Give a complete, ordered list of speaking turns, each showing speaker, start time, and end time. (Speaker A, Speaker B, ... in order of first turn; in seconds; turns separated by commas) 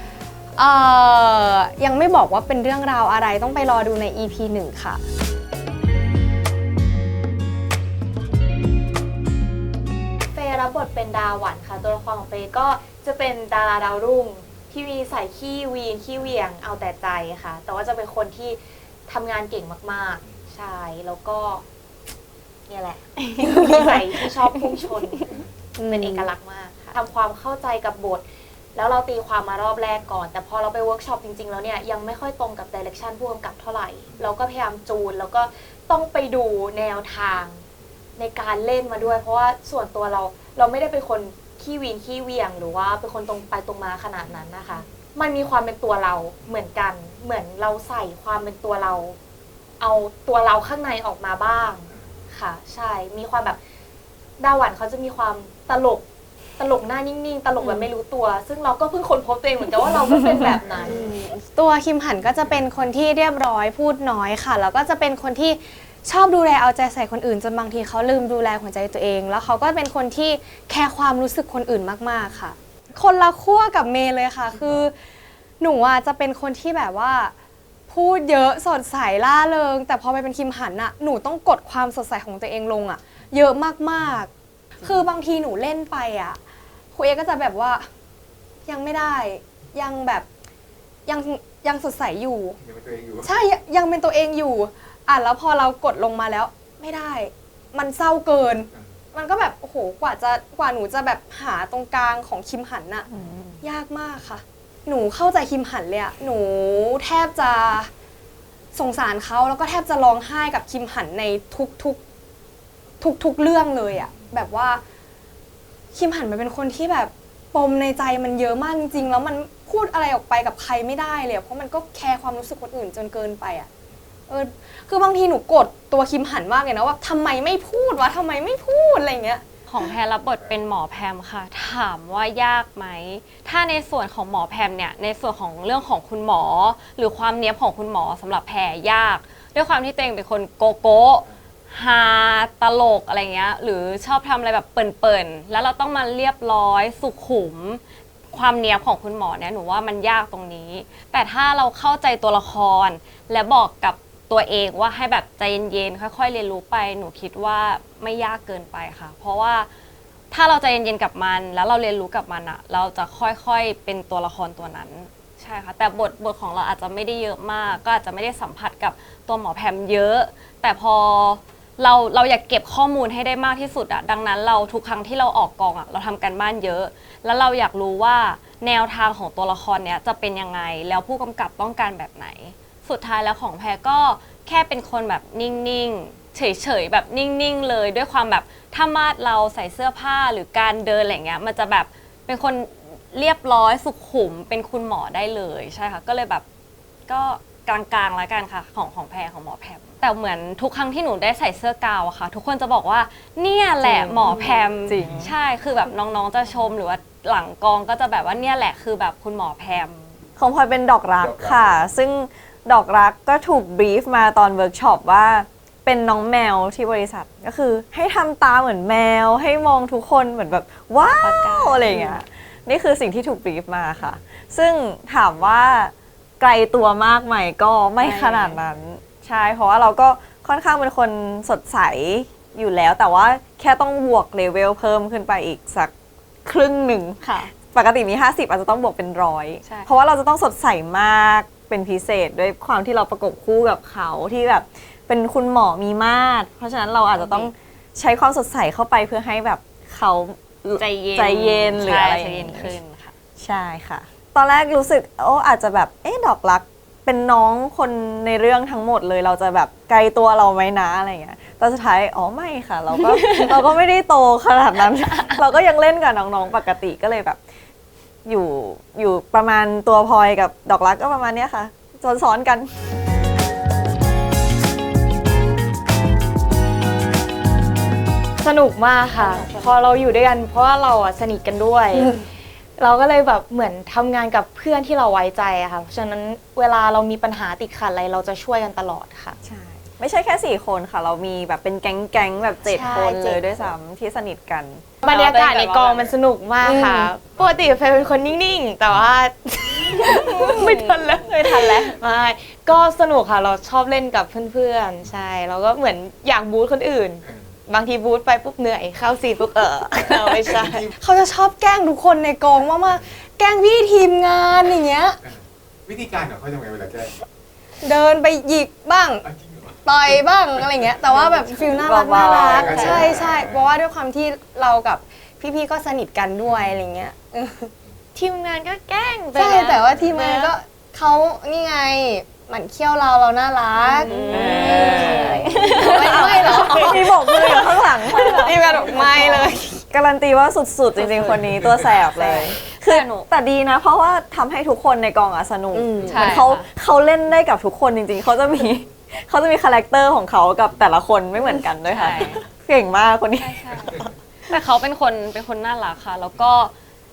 Speaker A: 0.6-5.0, Speaker B: 10.3-21.6, Speaker B: 22.7-28.2, Speaker A: 25.8-26.3, Speaker B: 28.8-37.6, Speaker B: 38.2-49.2, Speaker B: 49.8-53.6, Speaker B: 54.4-56.0, Speaker B: 56.6-61.2, Speaker A: 57.6-57.9, Speaker A: 60.9-75.0, Speaker A: 75.6-77.3, Speaker A: 77.9-84.3, Speaker A: 84.8-86.4, Speaker A: 86.9-87.9, Speaker A: 88.7-90.3, Speaker A: 91.1-92.6, Speaker C: 92.7-93.2, Speaker A: 93.2-103.1, Speaker D: 103.1-103.6, Speaker A: 103.6-107.9, Speaker A: 108.7-112.0, Speaker A: 113.0-114.8, Speaker A: 115.9-123.7, Speaker A: 124.3-129.4, Speaker E: 129.7-159.7, Speaker E: 160.3-196.4, Speaker E: 197.1-210.1, Speaker D: 203.8-204.3, Speaker D: 204.9-205.3, Speaker D: 210.4-235.9, Speaker C: 211.2-211.6, Speaker E: 221.2-222.1, Speaker E: 228.0-228.6, Speaker D: 236.4-252.8, Speaker E: 237.2-237.5, Speaker E: 239.6-239.9, Speaker E: 247.2-247.5, Speaker E: 250.8-253.1, Speaker D: 253.4-267.4, Speaker E: 263.0-263.6, Speaker E: 265.1-265.4, Speaker D: 268.3-272.7, Speaker B: 278.4-289.4, Speaker E: 279.1-279.8, Speaker D: 289.4-294.9, Speaker B: 292.7-293.4, Speaker E: 295.0-296.1, Speaker B: 295.0-310.9, Speaker A: 296.6-297.1, Speaker E: 300.5-301.9, Speaker A: 311.0-315.2, Speaker C: 315.9-317.1, Speaker A: 317.8-319.2, Speaker A: 319.8-327.7, Speaker B: 321.2-321.6, Speaker D: 321.7-323.1, Speaker C: 322.2-323.7, Speaker B: 322.6-323.1, Speaker B: 328.1-330.5, Speaker A: 329.3-339.8, Speaker B: 333.9-334.1, Speaker E: 334.0-337.1, Speaker D: 334.3-338.5, Speaker E: 338.0-339.4, Speaker D: 339.9-354.1, Speaker E: 341.0-343.3, Speaker A: 345.7-346.2, Speaker E: 346.1-346.7, Speaker E: 351.9-352.4, Speaker E: 353.4-356.7